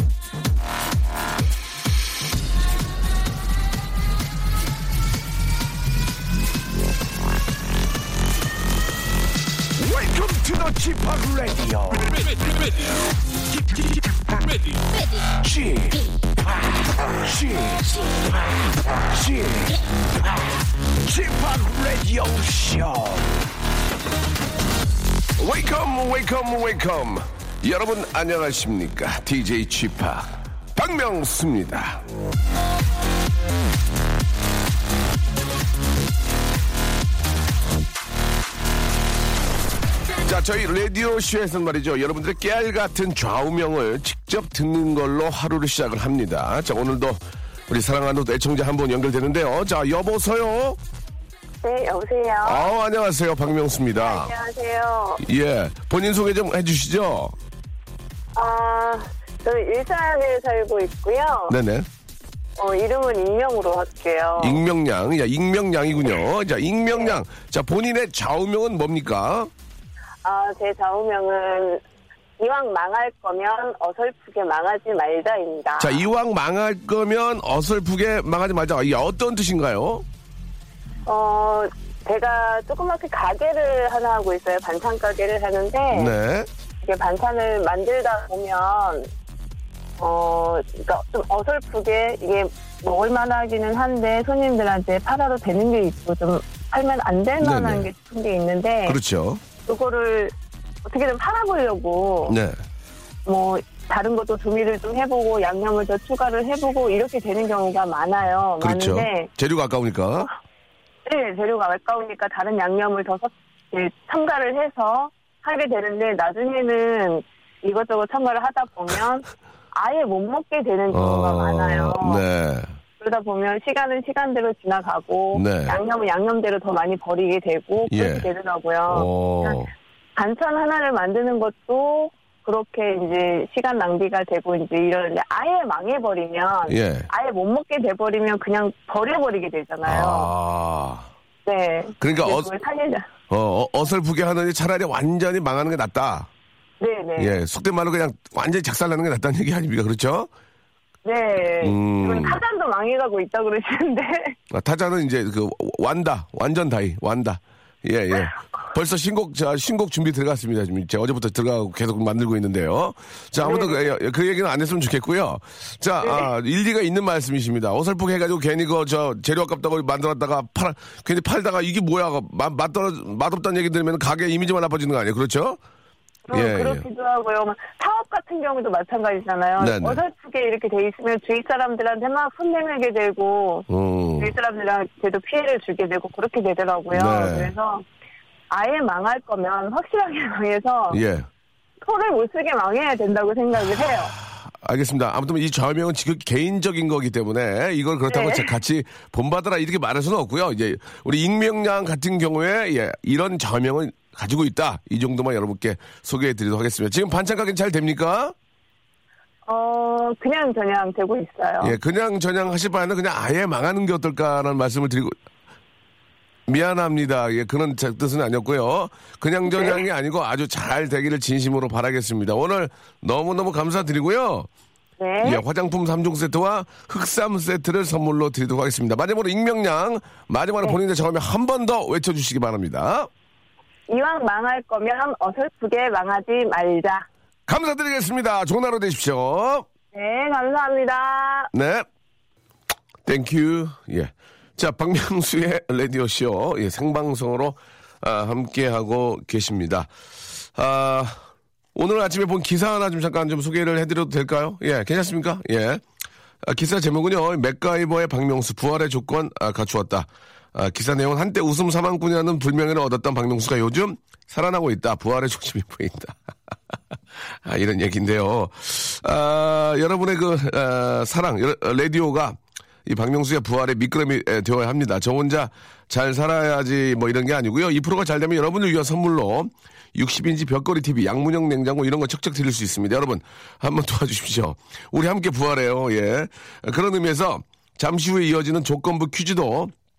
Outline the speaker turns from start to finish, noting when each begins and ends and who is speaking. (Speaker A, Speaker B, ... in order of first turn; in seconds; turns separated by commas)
Speaker A: 9.8-12.7, Speaker A: 13.5-23.4, Speaker A: 25.4-32.0, Speaker A: 40.2-50.8, Speaker B: 51.6-52.6, Speaker A: 52.4-54.3, Speaker B: 54.0-55.2, Speaker A: 55.2-57.3, Speaker B: 58.3-61.5, Speaker A: 61.5-61.9, Speaker B: 62.6-64.6, Speaker A: 64.4-69.5, Speaker B: 70.2-71.8, Speaker B: 72.4-76.0, Speaker A: 75.8-80.0, Speaker B: 81.1-86.1, Speaker A: 85.9-86.5, Speaker B: 86.8-89.1, Speaker B: 90.0-99.0, Speaker A: 97.4-97.9, Speaker A: 98.8-99.4, Speaker B: 99.6-100.3, Speaker B: 100.8-102.4, Speaker A: 102.3-102.6, Speaker B: 103.2-109.3, Speaker A: 108.6-110.3, Speaker B: 111.0-122.2, Speaker A: 120.9-122.8, Speaker B: 123.0-129.6, Speaker A: 125.3-125.8, Speaker A: 127.9-128.3, Speaker A: 128.9-129.7, Speaker B: 130.2-140.3, Speaker A: 136.7-137.1, Speaker A: 139.8-141.1, Speaker B: 141.4-143.0, Speaker A: 142.0-142.5, Speaker A: 143.3-146.3, Speaker B: 146.8-147.3, Speaker A: 147.2-150.3, Speaker B: 151.0-154.3, Speaker A: 151.6-152.4, Speaker A: 154.5-175.6, Speaker B: 163.4-163.8, Speaker B: 176.2-183.7, Speaker A: 176.3-176.8, Speaker A: 179.6-180.0, Speaker A: 183.7-184.3, Speaker B: 184.2-187.8, Speaker A: 186.9-187.5, Speaker B: 188.5-191.0, Speaker A: 190.9-191.3, Speaker B: 191.8-194.1, Speaker A: 194.2-208.3, Speaker B: 198.1-198.5, Speaker B: 209.5-211.8, Speaker A: 211.6-215.1, Speaker A: 216.5-224.5, Speaker B: 225.0-225.4, Speaker A: 225.2-233.1, Speaker B: 233.9-237.1, Speaker A: 237.5-239.7, Speaker B: 239.9-241.5, Speaker A: 241.5-241.8, Speaker A: 243.0-249.9, Speaker A: 250.5-251.2, Speaker A: 251.7-255.8, Speaker A: 256.4-266.2, Speaker A: 267.4-289.7